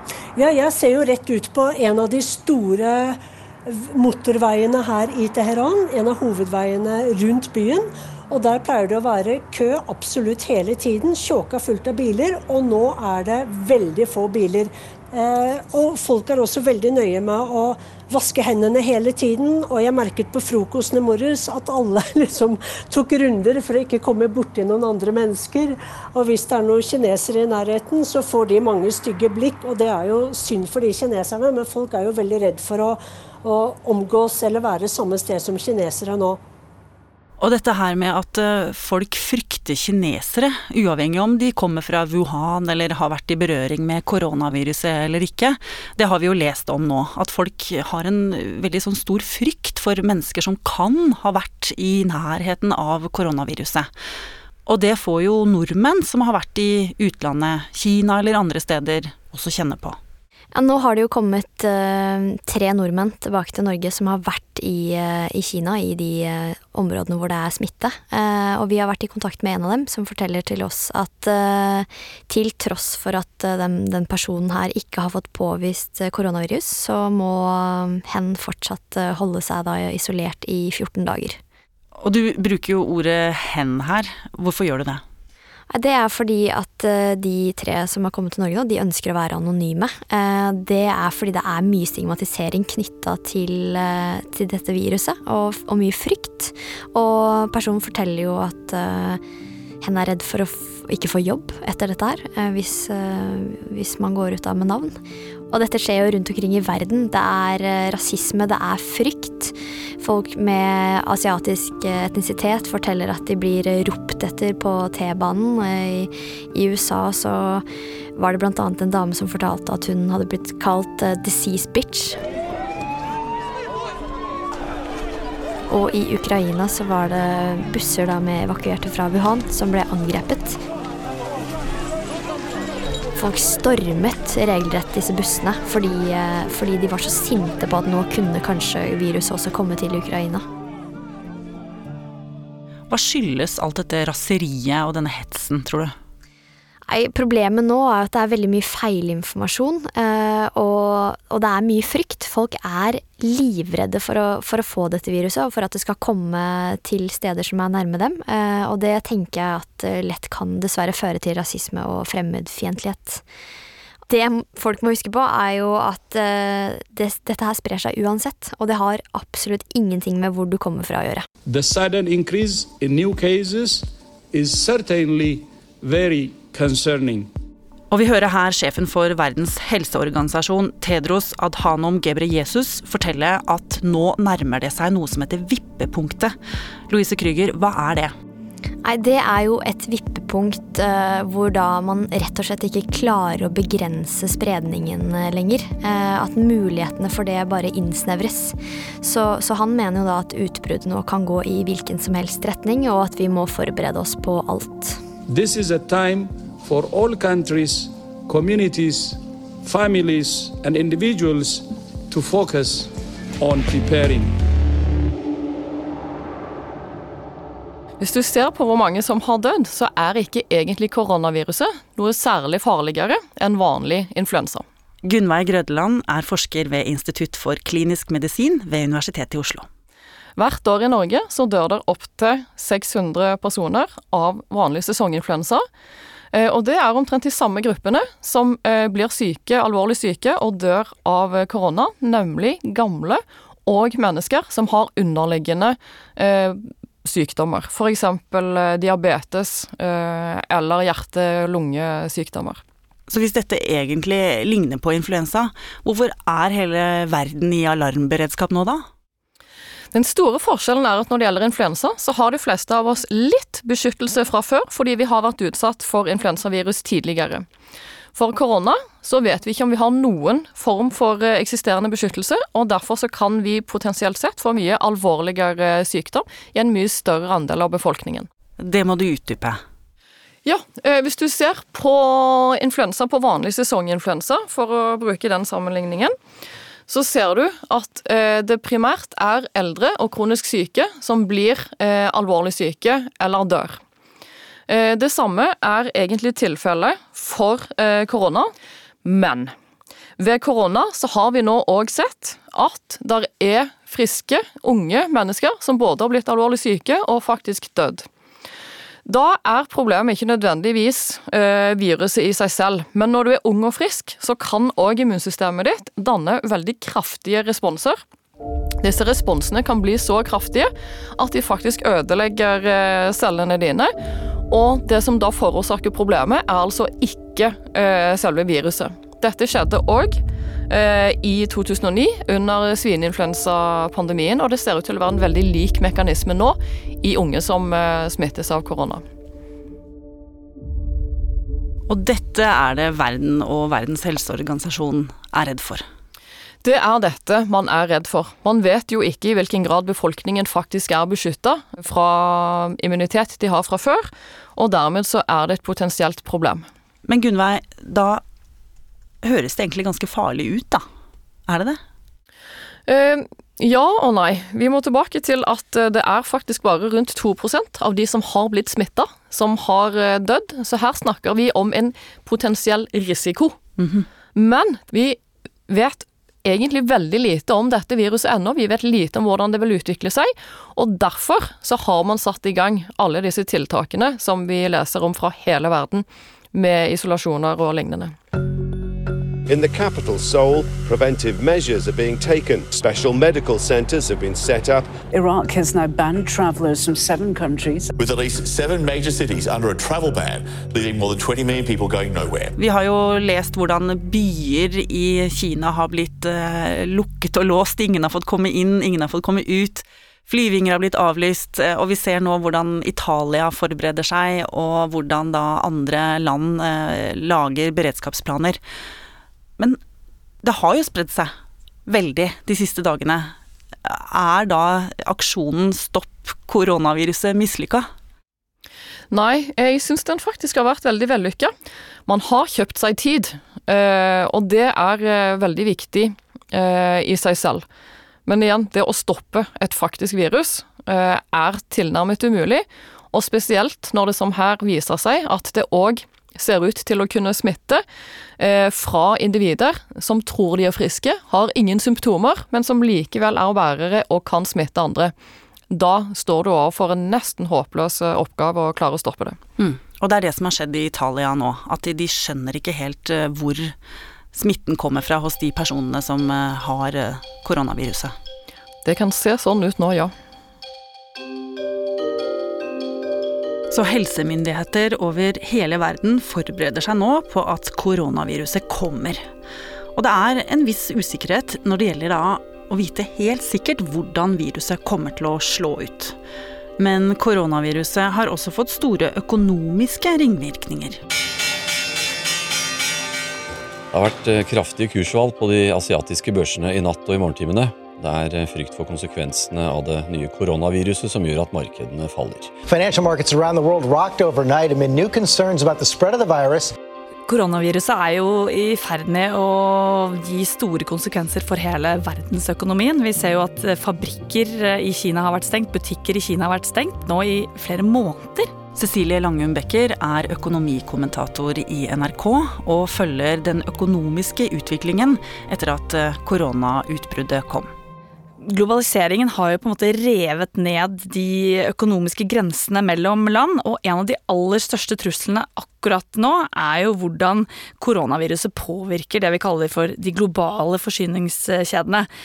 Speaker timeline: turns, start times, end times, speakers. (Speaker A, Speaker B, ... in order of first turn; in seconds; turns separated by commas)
Speaker A: 0.4-36.4, Speaker B: 37.4-53.9, Speaker B: 54.7-60.0, Speaker C: 60.5-81.4, Speaker B: 82.0-85.0, Speaker C: 85.7-99.2, Speaker C: 99.8-104.9, Speaker C: 105.5-117.7, Speaker C: 118.2-122.2, Speaker C: 125.7-130.6, Speaker C: 133.2-140.4, Speaker B: 142.9-145.9, Speaker C: 146.9-163.2, Speaker C: 164.1-171.2, Speaker D: 171.5-177.3, Speaker B: 177.9-186.3, Speaker B: 186.9-188.1, Speaker C: 188.8-205.0, Speaker D: 205.3-214.3, Speaker E: 218.0-224.6, Speaker B: 225.0-229.7, Speaker E: 230.4-235.6, Speaker E: 236.3-252.6, Speaker B: 253.1-258.8, Speaker E: 259.9-267.5, Speaker E: 268.1-278.3, Speaker B: 278.6-279.6, Speaker E: 280.4-286.1, Speaker E: 286.9-293.8, Speaker E: 294.7-298.5, Speaker E: 299.0-299.5, Speaker E: 300.2-308.1, Speaker E: 309.1-318.0, Speaker E: 318.8-323.9, Speaker E: 324.5-339.0, Speaker B: 341.9-345.8, Speaker E: 346.6-356.7, Speaker B: 357.1-358.2, Speaker B: 359.2-360.8, Speaker B: 361.5-361.8, Speaker E: 362.9-373.6, Speaker B: 373.8-374.1, Speaker E: 374.4-388.1, Speaker F: 389.5-394.9, Speaker G: 395.1-397.9, Speaker H: 398.0-402.5, Speaker B: 402.6-418.6, Speaker B: 420.4-421.3, Speaker B: 421.9-423.3, Speaker B: 423.9-427.9, Speaker E: 429.1-431.5, Speaker E: 432.1-437.6, Speaker E: 438.3-447.8, Speaker E: 448.4-455.1, Speaker E: 455.7-459.4, Speaker B: 459.6-463.7, Speaker B: 464.3-468.1, Speaker E: 468.9-470.1, Speaker B: 473.7-479.2, Speaker B: 480.0-486.2, Speaker B: 486.8-491.0, Speaker I: 493.9-502.5, Speaker J: 502.7-506.7, Speaker K: 507.3-518.5, Speaker B: 518.8-527.7, Speaker K: 528.5-542.1